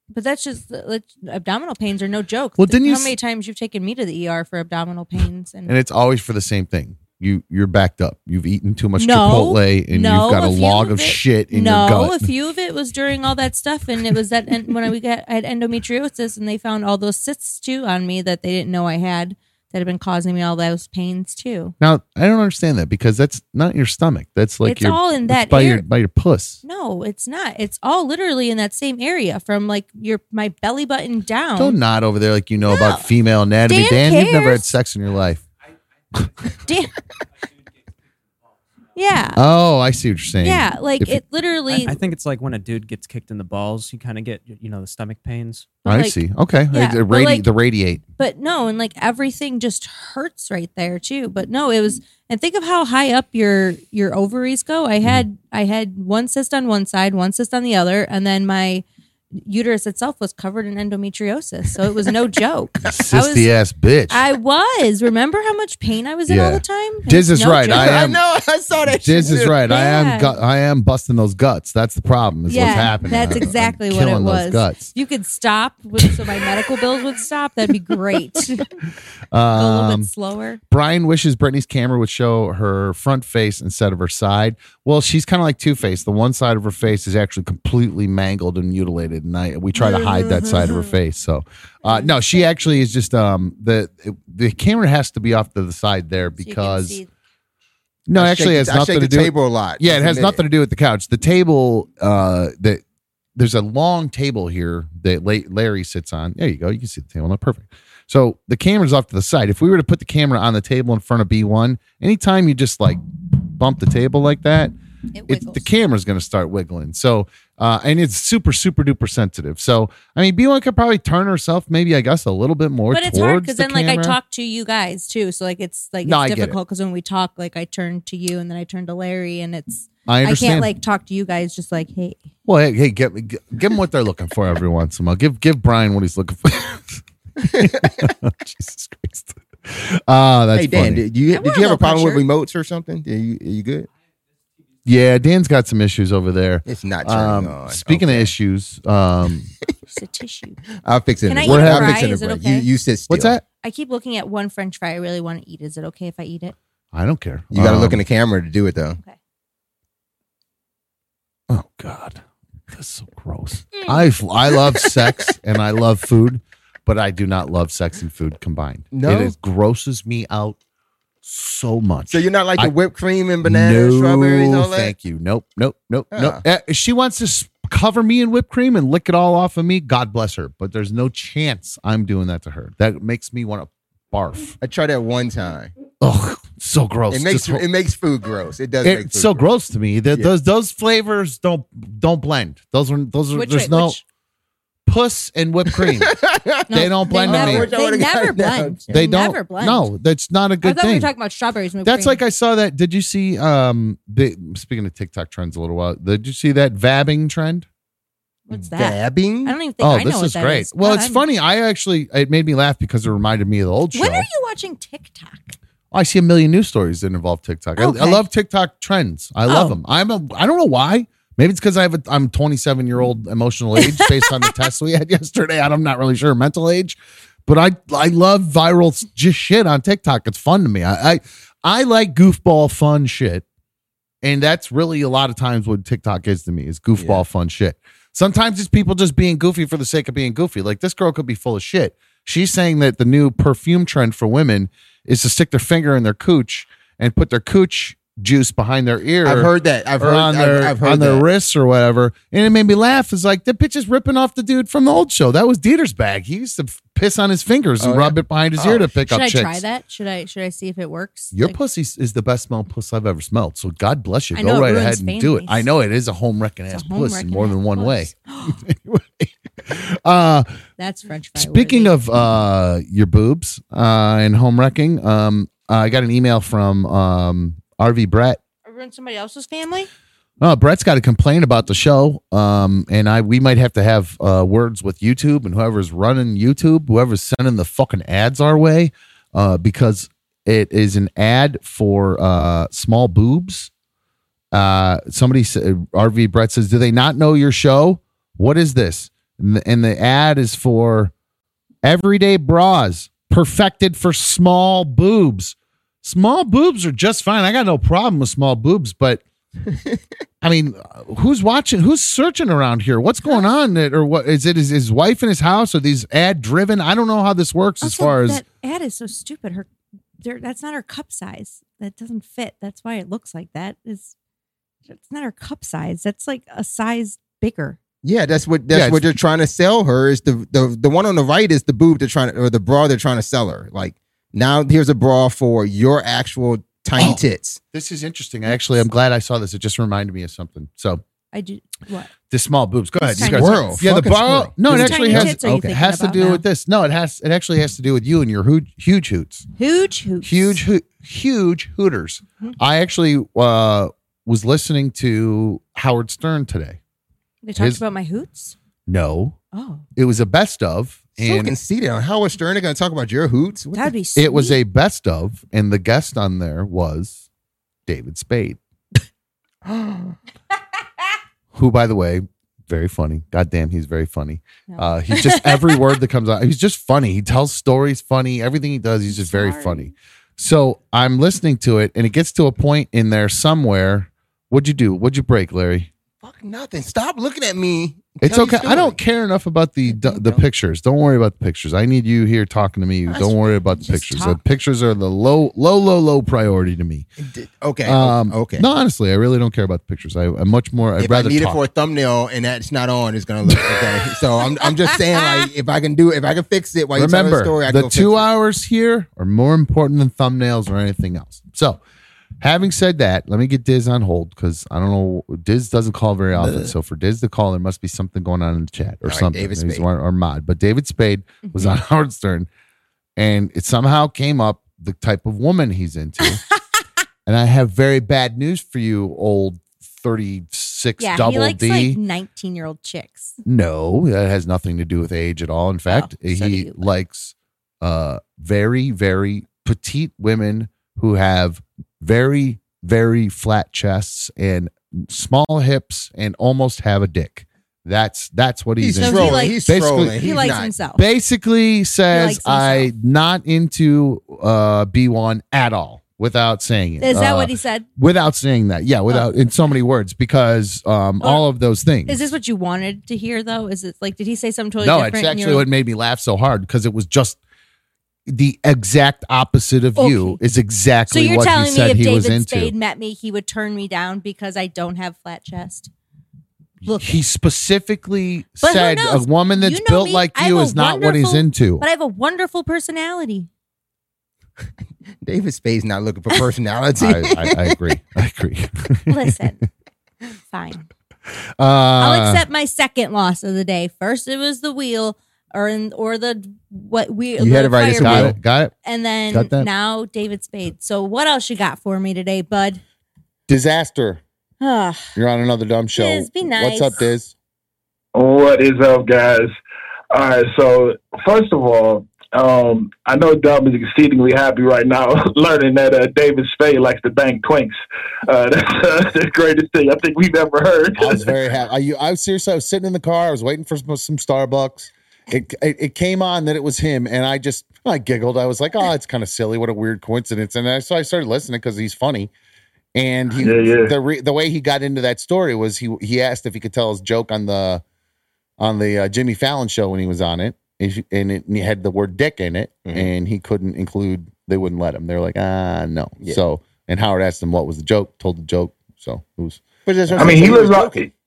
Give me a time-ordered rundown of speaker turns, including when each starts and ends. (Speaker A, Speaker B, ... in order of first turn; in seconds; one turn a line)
Speaker A: 0.1-5.7
Speaker B: 2.6-3.1
Speaker B: 5.7-12.3
Speaker A: 9.0-21.7
Speaker B: 21.8-26.6
Speaker A: 24.6-25.8
Speaker A: 26.6-31.8
Speaker B: 31.6-35.4
Speaker A: 32.6-33.1
Speaker A: 33.6-34.7
Speaker A: 36.6-36.9
Speaker A: 39.0-39.4
Speaker B: 39.4-41.2
Speaker A: 40.4-42.0
Speaker C: 41.7-45.8
Speaker A: 45.8-46.2
Speaker B: 45.9-48.0
Speaker A: 46.7-47.5
Speaker A: 48.2-58.8
Speaker A: 59.4-63.5
Speaker B: 62.9-64.2
Speaker A: 64.1-68.0
Speaker B: 66.3-68.2
Speaker D: 67.7-69.6
Speaker B: 68.9-74.9
Speaker A: 69.7-70.4
Speaker A: 72.5-78.7
Speaker D: 72.6-73.5
Speaker B: 79.3-80.1
Speaker A: 79.5-80.6
Speaker B: 80.7-97.0
Speaker A: 89.8-91.0
Speaker A: 91.8-92.4
Speaker A: 96.4-97.1
Speaker B: 98.1-102.8
Speaker D: 98.1-100.4
Speaker B: 103.4-114.7
Speaker A: 115.1-115.7
Speaker B: 115.3-124.2
Speaker A: 122.9-132.3
Speaker B: 126.0-126.6
Speaker B: 130.1-130.7
Speaker B: 132.5-141.0
Speaker D: 137.4-137.9
Speaker D: 140.6-143.9
Speaker A: 141.3-142.2
Speaker B: 144.8-149.5
Speaker D: 146.7-148.3
Speaker A: 149.9-150.6
Speaker D: 150.8-153.4
Speaker A: 151.3-152.7
Speaker B: 151.4-152.1
Speaker B: 153.1-153.4
Speaker A: 153.6-156.6
Speaker B: 156.9-158.0
Speaker D: 157.5-159.0
Speaker B: 161.5-170.6
Speaker D: 168.9-169.3
Speaker B: 171.2-172.8
Speaker D: 172.1-174.9
Speaker B: 173.4-184.6
Speaker D: 176.1-176.4
Speaker D: 184.6-185.7
Speaker B: 186.0-187.7
Speaker D: 187.1-189.4
Speaker B: 188.8-194.0
Speaker A: 193.3-194.0
Speaker B: 194.9-196.2
Speaker D: 195.8-199.0
Speaker A: 196.7-199.9
Speaker B: 196.7-197.7
Speaker B: 198.9-201.1
Speaker A: 200.6-202.2
Speaker B: 201.8-207.7
Speaker A: 208.5-211.2
Speaker D: 208.5-209.6
Speaker B: 209.8-214.3
Speaker A: 213.9-215.6
Speaker B: 215.9-233.4
Speaker A: 217.8-218.2
Speaker A: 219.5-219.8
Speaker B: 234.2-259.6
Speaker D: 237.0-237.2
Speaker D: 249.2-251.2
Speaker D: 257.8-258.9
Speaker A: 259.1-261.6
Speaker B: 261.3-270.6
Speaker A: 264.4-265.7
Speaker A: 266.7-268.6
Speaker A: 270.8-272.0
Speaker B: 271.4-278.4
Speaker A: 278.6-279.9
Speaker B: 280.4-293.7
Speaker B: 294.5-301.1
Speaker B: 301.8-309.2
Speaker B: 310.4-318.4
Speaker A: 317.8-319.7
Speaker A: 320.2-324.1
Speaker A: 324.9-327.8
Speaker D: 328.0-337.6
Speaker B: 328.7-329.1
Speaker B: 337.0-341.0
Speaker A: 338.5-338.8
Speaker A: 341.3-342.1
Speaker B: 342.3-349.5
Speaker D: 343.1-345.7
Speaker A: 343.2-343.8
Speaker A: 344.7-346.4
Speaker A: 349.6-350.6
Speaker B: 350.2-356.8
Speaker A: 357.4-358.6
Speaker B: 357.6-357.8
Speaker B: 358.9-359.4
Speaker A: 359.5-359.8
Speaker B: 360.0-361.6
Speaker D: 361.2-363.9
Speaker A: 363.7-364.6
Speaker B: 364.2-367.2
Speaker B: 367.9-368.6
Speaker D: 369.6-370.2
Speaker B: 371.5-385.9
Speaker A: 374.7-375.8
Speaker A: 379.1-379.9
Speaker D: 386.2-389.0
Speaker B: 388.2-397.1
Speaker D: 390.0-390.4
Speaker A: 393.8-394.4
Speaker D: 397.2-398.7
Speaker B: 397.9-401.6
Speaker D: 401.0-408.2
Speaker B: 406.9-411.8
Speaker B: 412.4-422.5
Speaker D: 416.4-416.7
Speaker D: 419.1-419.9
Speaker A: 421.4-421.8
Speaker B: 423.2-426.4
Speaker B: 427.3-432.0
Speaker A: 431.0-433.4
Speaker B: 433.4-462.3
Speaker A: 435.9-436.9
Speaker D: 448.8-450.7
Speaker A: 449.0-451.0
Speaker A: 452.1-452.9
Speaker A: 457.0-457.9
Speaker A: 459.1-459.4
Speaker A: 462.1-465.7
Speaker B: 464.8-467.4
Speaker B: 468.3-472.7
Speaker A: 470.0-470.4
Speaker A: 471.1-475.9
Speaker A: 476.9-477.1
Speaker B: 476.9-481.9
Speaker A: 478.6-483.5
Speaker D: 485.2-487.8
Speaker B: 487.0-489.3
Speaker A: 489.1-489.6
Speaker A: 490.5-490.9
Speaker B: 491.6-492.4
Speaker A: 492.0-502.8
Speaker D: 497.4-498.4
Speaker B: 498.0-498.7
Speaker B: 499.3-499.7
Speaker B: 503.5-504.2
Speaker A: 504.6-505.1
Speaker B: 505.2-507.3
Speaker A: 505.9-507.0
Speaker E: 508.1-509.5
Speaker E: 510.1-521.3
Speaker B: 521.0-532.3
Speaker B: 533.0-537.8
Speaker E: 533.4-533.9
Speaker B: 538.6-550.5
Speaker D: 549.9-551.1
Speaker E: 550.2-551.1